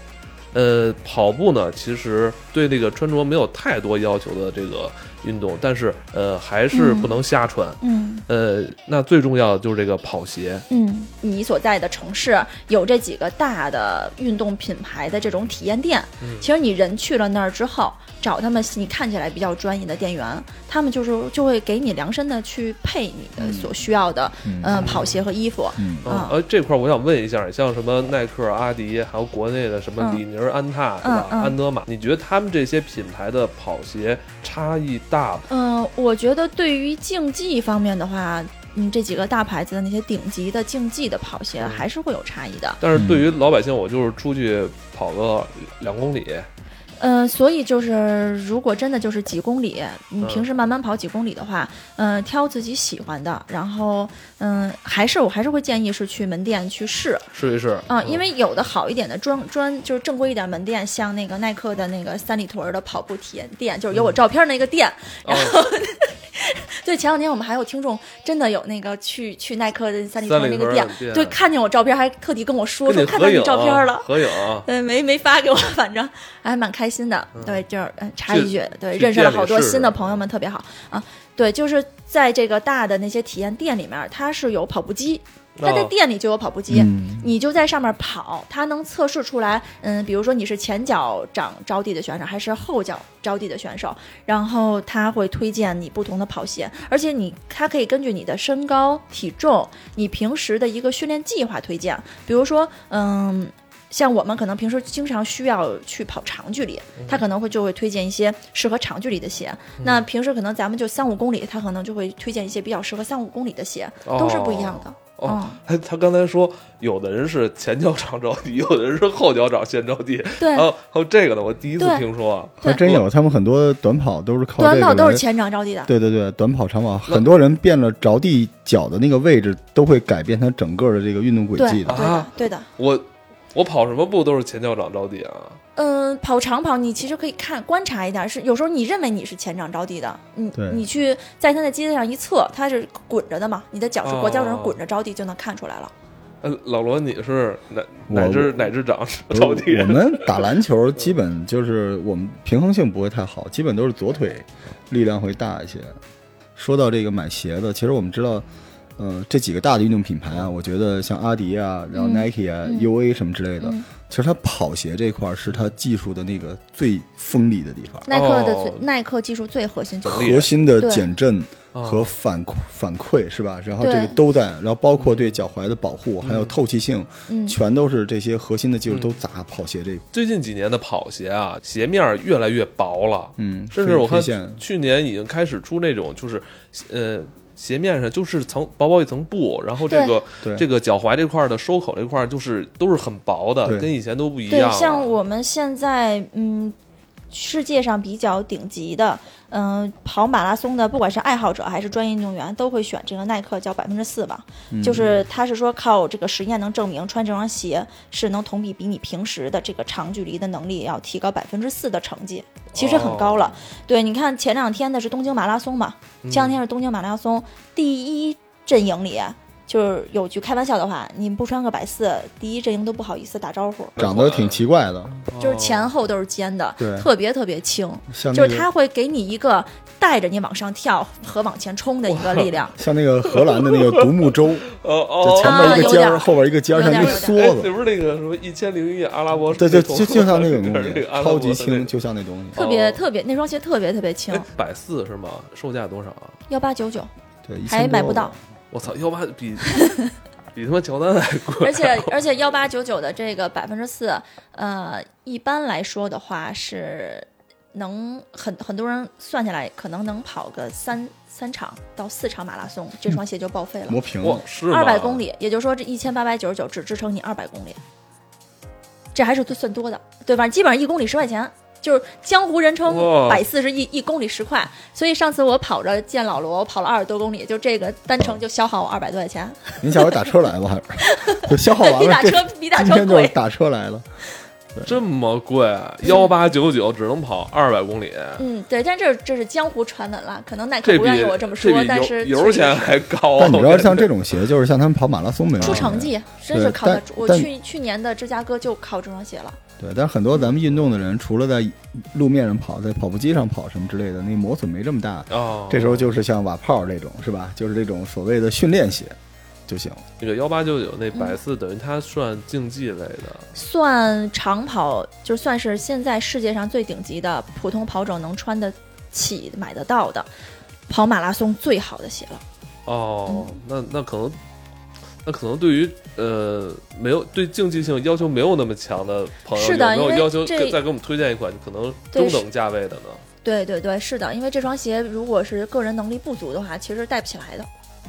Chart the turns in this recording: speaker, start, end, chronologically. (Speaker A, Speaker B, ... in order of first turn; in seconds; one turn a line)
Speaker A: 0.5-10.6
Speaker B: 6.7-7.1
Speaker B: 7.8-8.2
Speaker B: 10.7-26.4
Speaker A: 16.2-16.5
Speaker C: 23.4-23.7
Speaker C: 24.4-24.9
Speaker A: 24.7-25.2
Speaker C: 25.8-26.1
Speaker A: 26.0-35.5
Speaker B: 31.0-31.5
Speaker B: 35.5-42.8
Speaker A: 41.6-41.9
Speaker A: 42.8-46.5
Speaker C: 42.9-43.3
Speaker B: 47.0-57.2
Speaker A: 50.2-50.5
Speaker A: 57.3-58.2
Speaker B: 57.9-115.6
Speaker A: 65.2-65.5
Speaker A: 70.2-71.4
Speaker A: 72.8-74.7
Speaker A: 77.3-77.6
Speaker A: 78.3-80.2
Speaker A: 85.6-85.9
Speaker C: 86.7-87.3
Speaker A: 107.0-107.2
Speaker A: 109.8-110.1
Speaker A: 114.0-123.0
Speaker B: 120.4-120.7
Speaker B: 121.8-122.0
Speaker C: 122.6-125.2
Speaker B: 124.6-125.9
Speaker C: 125.9-132.0
Speaker B: 131.6-132.7
Speaker A: 131.9-135.6
Speaker B: 135.8-145.9
Speaker C: 140.5-140.8
Speaker A: 144.0-144.8
Speaker A: 146.4-150.5
Speaker C: 148.1-148.7
Speaker C: 149.3-156.0
Speaker C: 156.6-158.4
Speaker C: 159.0-168.1
Speaker B: 161.9-162.9
Speaker B: 163.6-163.9
Speaker B: 168.1-171.1
Speaker A: 168.1-168.8
Speaker A: 170.0-170.5
Speaker C: 170.1-180.0
Speaker A: 171.7-172.1
Speaker B: 173.8-174.2
Speaker A: 174.9-175.4
Speaker A: 176.2-176.5
Speaker B: 177.3-177.6
Speaker A: 178.9-179.2
Speaker A: 180.1-195.1
Speaker C: 183.4-184.6
Speaker B: 189.9-190.1
Speaker B: 194.5-196.7
Speaker B: 197.3-224.0
Speaker C: 204.7-205.1
Speaker A: 204.9-205.2
Speaker A: 212.7-213.5
Speaker A: 216.2-216.6
Speaker A: 224.0-224.6
Speaker C: 224.0-225.3
Speaker A: 225.3-225.9
Speaker B: 225.4-232.8
Speaker C: 226.8-227.1
Speaker C: 228.1-228.7
Speaker A: 232.0-232.5
Speaker C: 232.8-234.7
Speaker A: 233.2-241.9
Speaker C: 235.2-237.7
Speaker B: 235.4-237.4
Speaker C: 239.5-242.6
Speaker A: 242.5-243.0
Speaker B: 242.5-244.5
Speaker A: 244.3-246.4
Speaker B: 246.5-247.1
Speaker C: 247.4-248.3
Speaker B: 247.7-248.3
Speaker A: 248.7-250.0
Speaker B: 249.7-250.1
Speaker A: 250.5-252.1
Speaker B: 251.6-264.0
Speaker C: 263.9-264.4
Speaker A: 264.2-265.2
Speaker B: 264.7-267.8
Speaker B: 269.1-280.2
Speaker A: 272.9-273.4
Speaker C: 279.8-284.0
Speaker B: 281.0-283.4
Speaker A: 284.8-288.4
Speaker B: 286.0-286.3
Speaker B: 288.4-292.9
Speaker A: 290.8-294.4
Speaker C: 293.4-297.5
Speaker A: 295.6-295.9
Speaker B: 295.6-299.6
Speaker C: 299.8-309.1
Speaker A: 305.3-306.1
Speaker C: 309.7-310.0
Speaker A: 310.2-313.5
Speaker B: 311.1-311.4
Speaker B: 313.5-320.3
Speaker B: 320.9-322.4
Speaker A: 322.9-324.4
Speaker B: 323.3-323.6
Speaker A: 325.2-333.2
Speaker B: 329.5-330.8
Speaker B: 332.1-332.4
Speaker B: 333.4-337.7